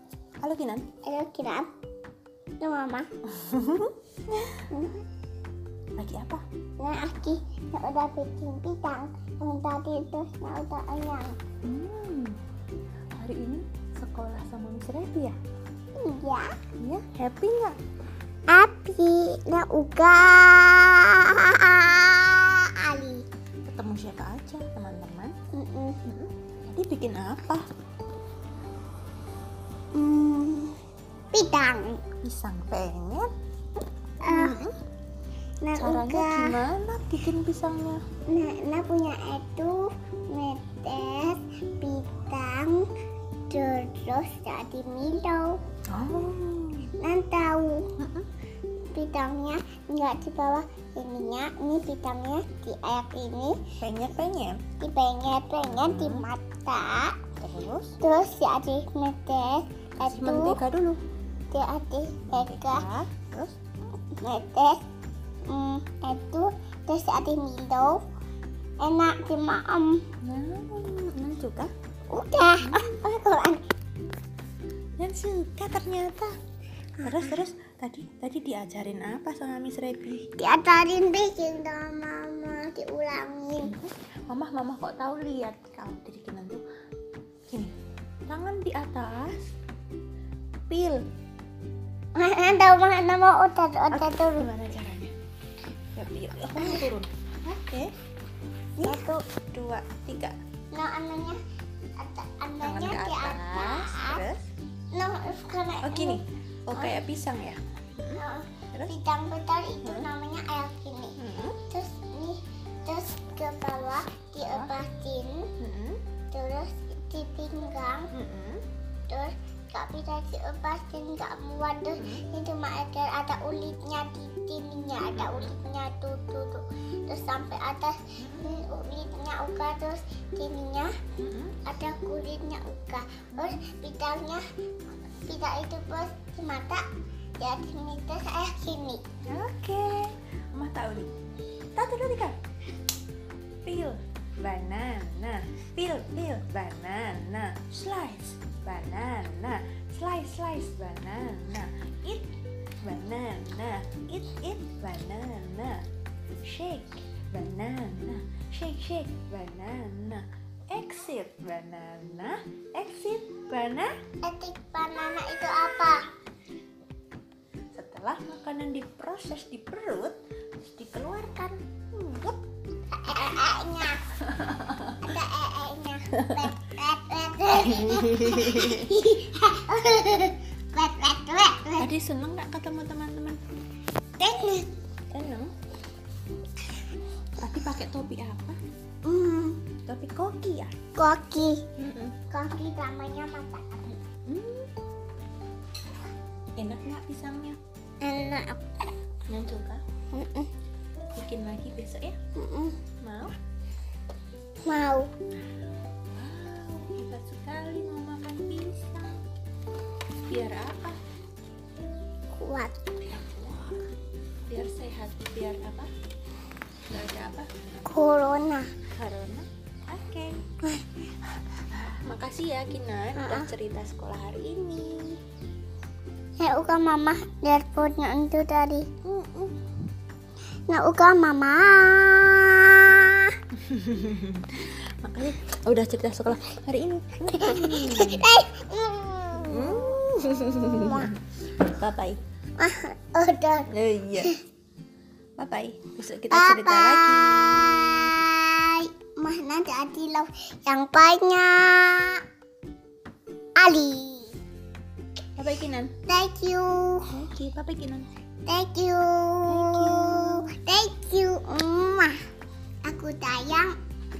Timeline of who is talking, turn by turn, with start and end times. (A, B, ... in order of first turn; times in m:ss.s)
0:00.4-0:00.9 A
0:01.0-0:01.7 B
0:02.6-0:03.1 B
0:03.2-0:04.6 A
0:04.7-0:05.0 B
0:06.0-0:06.4 A
0:06.8-0:11.4 B
0:11.6-0:12.4 A
0:13.2-0:15.4 A
0:16.0-0:16.5 B
0:16.8-0:17.8 A
0:18.5-0:23.2 B
0:23.6-0:25.3 A
0:25.5-0:26.0 B
0:26.0-0:27.6 A
0:29.9-0:30.8 B
0:31.3-0:32.0 B
0:32.2-0:33.3 A
0:34.2-0:34.6 B
0:34.2-0:34.8 A
0:35.6-0:36.6 B
0:35.7-0:38.0 A
0:38.3-0:42.9 B
0:43.5-0:45.6 B
0:45.9-0:46.9 A
0:47.0-0:47.9 B
0:48.0-0:48.3 A
0:48.9-0:53.7 B
0:53.8-0:54.6 A
0:54.8-0:57.2 B
0:55.6-0:56.2 A
0:57.4-0:58.0 A
0:58.0-1:00.6 B
1:00.0-1:01.0 A
1:01.5-1:02.8 B
1:02.3-1:03.5 A
1:04.2-1:04.8 B
1:05.5-1:08.0 B
1:08.8-1:10.0 B
1:10.2-1:11.7 A
1:12.1-1:13.6 B
1:12.6-1:12.9 A
1:15.0-1:16.3 A
1:17.0-1:20.3 A
1:20.4-1:23.7 B
1:23.6-1:26.6 A
1:28.3-1:29.4 A
1:30.7-1:31.0 A
1:32.2-1:34.5 B
1:33.9-1:35.1 A
1:35.9-1:37.9 A
1:38.8-1:39.2 B
1:38.8-1:40.4 A
1:40.7-1:41.4 B
1:42.0-1:44.2 B
1:42.6-1:44.5 A
1:44.9-1:46.2 B
1:45.8-1:48.9 A
1:48.2-1:51.2 B
1:49.8-1:50.1 A
1:51.2-1:51.6 A
1:51.7-1:55.5 B
1:55.6-1:56.0 A
1:56.3-1:58.1 B
1:58.1-1:58.6 A
1:59.1-2:10.9 B
2:02.0-2:02.2 A
2:05.1-2:05.5 A
2:08.2-2:08.5 A
2:11.2-2:11.6 A
2:11.6-2:14.4 B
2:15.2-2:16.8 B
2:17.4-2:19.0 B
2:19.2-2:21.1 A
2:21.7-2:22.4 A
2:23.6-2:35.8 A
2:36.4-2:43.9 A
2:44.2-2:46.0 B
2:47.7-2:52.4 A
2:52.9-2:54.0 B
2:54.2-2:55.1 A
2:55.0-3:01.9 B
2:56.2-2:56.5 A
2:57.6-2:58.9 A
3:01.8-3:03.4 A
3:04.2-3:04.7 B
3:05.1-3:05.5 A
3:07.4-3:08.6 A
3:09.0-3:09.6 B
3:09.9-3:10.7 A
3:11.0-3:11.6 B
3:11.8-3:12.2 A
3:12.3-3:14.0 B
3:14.3-3:14.7 A
3:16.6-3:17.6 A
3:18.0-3:18.9 B
3:19.3-3:19.8 A
3:20.1-3:20.5 B
3:21.1-3:22.2 A
3:22.3-3:22.8 B
3:23.0-3:23.3 A
3:24.6-3:25.1 B
3:25.9-3:29.2 A
3:30.3-3:31.0 A
3:32.3-3:32.8 B
3:33.0-3:33.8 A
3:34.5-3:35.9 A
3:36.9-3:37.6 A
3:37.8-3:38.7 B
3:38.9-3:40.4 A
3:41.7-3:45.2 A
3:43.2-3:43.5 B
3:46.4-3:48.9 B
3:49.0-3:49.6 A
3:50.7-3:53.4 B
3:53.5-3:58.3 A
3:57.4-4:01.1 B
3:59.4-4:02.2 A
4:02.6-4:03.7 B
4:03.7-4:04.4 A
4:05.4-4:08.3 A
4:06.3-4:12.2 B
4:13.6-4:14.4 B
4:15.4-4:15.9 A
4:16.1-4:17.1 B
4:17.1-4:18.1 A
4:18.4-4:22.2 B
4:19.5-4:20.4 A
4:22.8-4:23.7 B